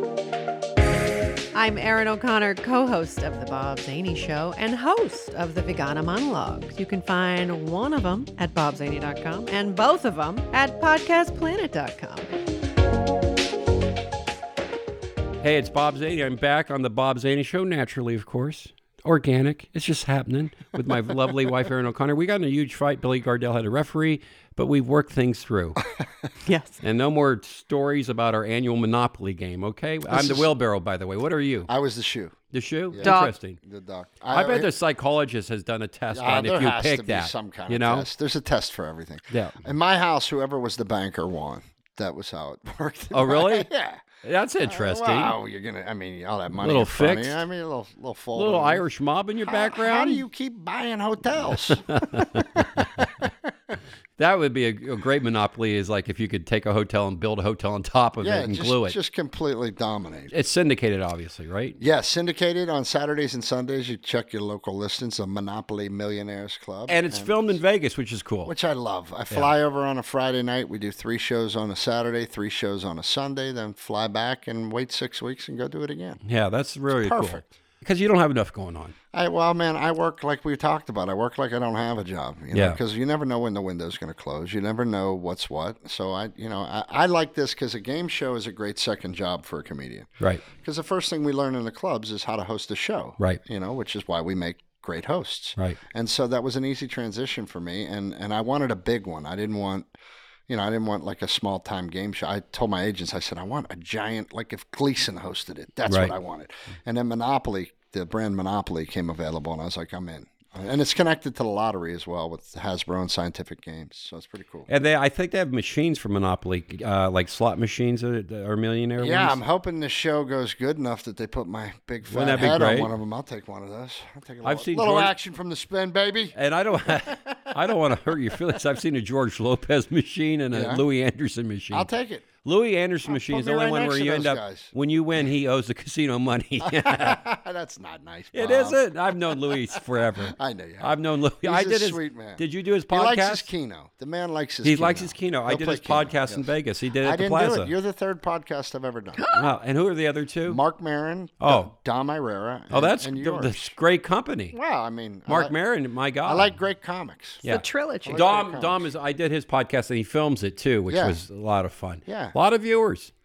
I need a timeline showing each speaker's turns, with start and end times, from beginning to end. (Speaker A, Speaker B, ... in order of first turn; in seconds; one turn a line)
Speaker A: 1.5-12.3
Speaker B: 15.4-25.8
Speaker A: 26.4-26.8
Speaker B: 26.8-31.7
Speaker C: 30.1-30.5
Speaker C: 31.7-32.4
Speaker B: 32.5-33.6
Speaker C: 32.9-34.7
Speaker A: 33.0-33.4
Speaker B: 34.3-38.1
Speaker C: 36.1-44.1
Speaker B: 39.3-39.6
Speaker B: 43.1-43.7
Speaker B: 44.2-45.4
Speaker C: 44.6-48.9
Speaker B: 46.6-47.4
Speaker B: 48.4-50.2
Speaker C: 49.5-53.8
Speaker B: 51.5-53.3
Speaker B: 54.2-59.0
Speaker C: 58.2-60.3
Speaker B: 60.3-61.8
Speaker C: 61.8-67.6
Speaker B: 66.9-68.5
Speaker C: 68.5-76.2
Speaker B: 76.2-79.0
Speaker C: 76.9-77.4
Speaker C: 79.1-99.9
Speaker B: 82.5-82.8
Speaker C: 100.5-114.7
Speaker B: 105.9-106.2
Speaker B: 114.7-119.4
Speaker C: 119.0-128.3
Speaker B: 122.1-122.9
Speaker B: 124.4-125.1
Speaker B: 126.3-131.9
Speaker C: 130.5-130.8
Speaker C: 131.7-132.3
Speaker B: 132.4-137.2
Speaker C: 133.1-134.7
Speaker C: 136.6-149.3
Speaker B: 138.3-143.5
Speaker B: 144.6-147.7
Speaker A: 149.2-149.5
Speaker B: 149.3-150.6
Speaker C: 150.5-153.8
Speaker B: 151.4-151.7
Speaker B: 152.7-154.6
Speaker C: 154.5-155.6
Speaker B: 155.3-156.5
Speaker C: 156.2-157.4
Speaker B: 157.4-163.1
Speaker A: 157.4-158.2
Speaker C: 158.0-158.9
Speaker C: 160.9-161.2
Speaker C: 162.1-162.3